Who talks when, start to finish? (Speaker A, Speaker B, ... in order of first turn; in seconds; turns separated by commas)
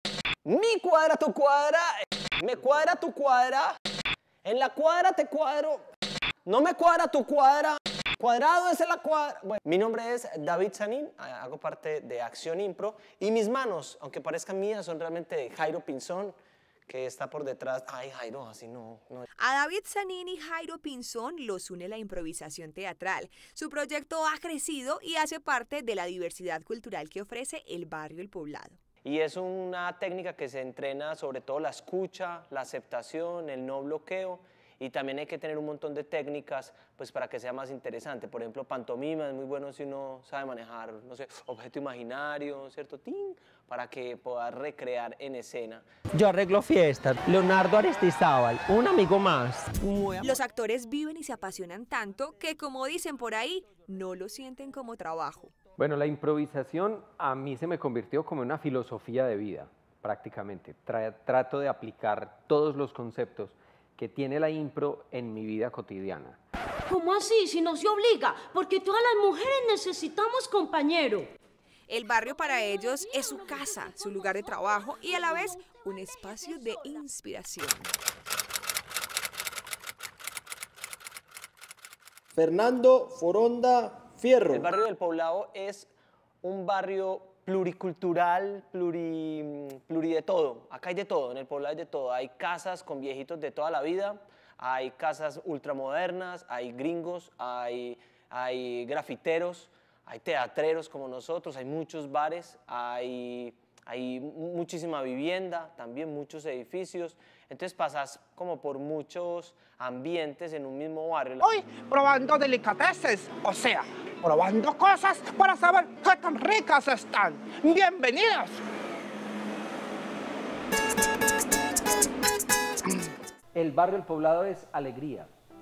Speaker A: 0.5-3.8, Speaker A: 4.4-5.9, Speaker A: 6.5-16.4, Speaker A: 16.9-19.3, Speaker B: 19.4-28.7, Speaker A: 29.0-45.9, Speaker C: 46.1-50.4, Speaker B: 50.3-55.4, Speaker D: 52.2-52.4, Speaker D: 53.5-55.5, Speaker E: 55.8-66.4, Speaker F: 66.9-71.3, Speaker B: 71.9-77.8, Speaker F: 72.6-75.8, Speaker G: 82.3-84.7, Speaker A: 84.5-85.9, Speaker A: 86.4-111.6, Speaker D: 111.4-118.6, Speaker E: 123.5-125.3